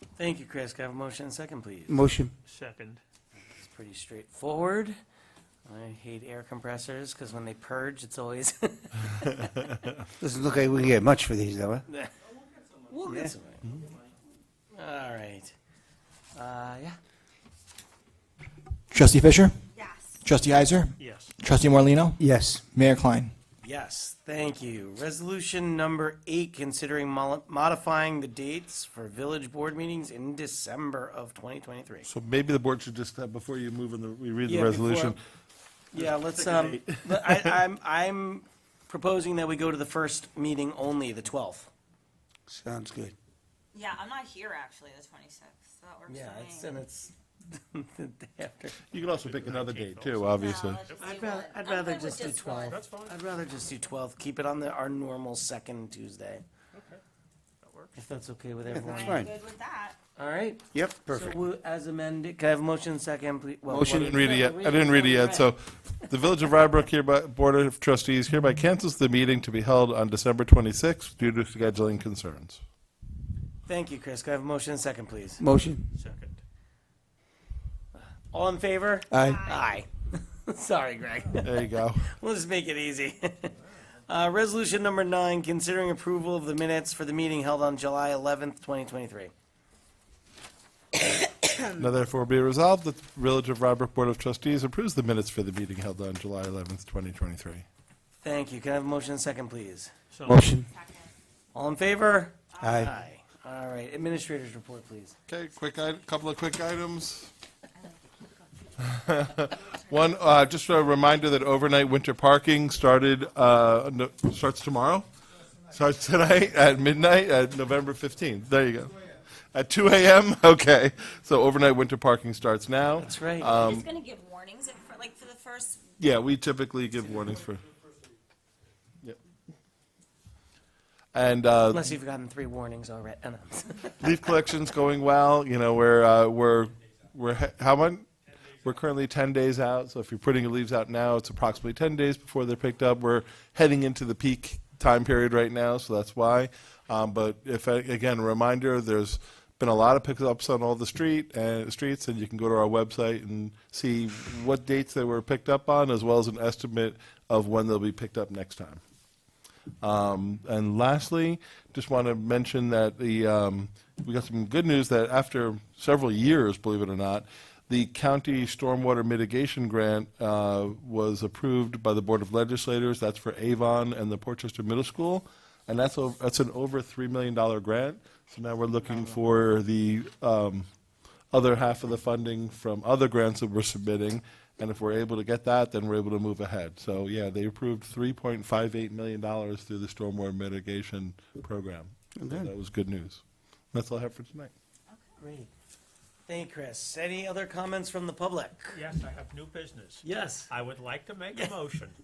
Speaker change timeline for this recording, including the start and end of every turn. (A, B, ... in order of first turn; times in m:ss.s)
0:00.2-0:02.0 A
0:01.9-0:02.3 B
0:02.4-0:03.0 C
0:03.6-0:04.9 A
0:05.6-0:09.7 A
0:10.2-0:11.8 B
0:12.9-0:13.6 A
0:13.1-0:13.3 B
0:14.7-0:15.5 A
0:16.3-0:17.0 A
0:18.9-0:19.6 D
0:19.7-0:20.2 E
0:20.2-0:22.2 D
0:21.0-0:21.3 C
0:22.2-0:22.6 B
0:22.7-0:23.3 D
0:23.6-0:32.1 A
0:32.0-0:35.2 F
0:34.4-0:35.2 A
0:35.9-0:41.7 A
0:36.5-0:37.5 F
0:42.5-0:43.1 B
0:43.7-0:46.8 E
0:46.1-0:48.8 A
0:48.9-0:50.8 F
0:49.1-0:51.0 C
0:50.3-0:52.8 E
0:51.0-0:56.4 A
0:52.7-0:53.2 C
0:56.7-0:57.0 C
0:57.6-0:58.0 C
0:58.0-0:59.2 A
0:58.7-0:59.3 B
0:58.8-1:00.0 E
1:00.2-1:05.5 A
1:00.7-1:01.4 B
1:03.7-1:04.2 B
1:03.8-1:12.6 F
1:13.7-1:15.4 A
1:15.4-1:15.8 B
1:16.0-1:16.4 C
1:18.3-1:23.5 A
1:19.1-1:19.5 B
1:19.2-1:19.8 E
1:21.4-1:22.1 F
1:24.1-1:29.3 A
1:31.6-1:37.6 F
1:38.2-1:39.9 A
1:40.1-1:40.4 C
1:40.2-1:40.7 B
1:40.5-1:41.1 E
1:41.5-1:45.1 A
1:42.5-1:43.1 E
1:42.6-1:42.9 B
1:45.3-1:47.3 F
1:47.8-1:49.5 E
1:48.8-1:55.0 F
1:55.7-1:59.0 F
1:59.5-2:03.9 F
2:03.0-2:03.5 A
2:03.5-2:05.8 E
2:06.0-2:07.6 F
2:11.1-2:11.9 F
2:11.7-2:14.0 A
2:14.0-2:18.1 F
2:18.6-2:38.8 F
2:39.8-3:00.7 F
3:01.3-3:13.2 F
3:12.2-3:12.5 B
3:13.7-3:14.5 F
3:15.2-3:15.5 A
3:16.3-3:18.8 A
3:18.7-3:22.0 C
3:20.0-3:20.5 A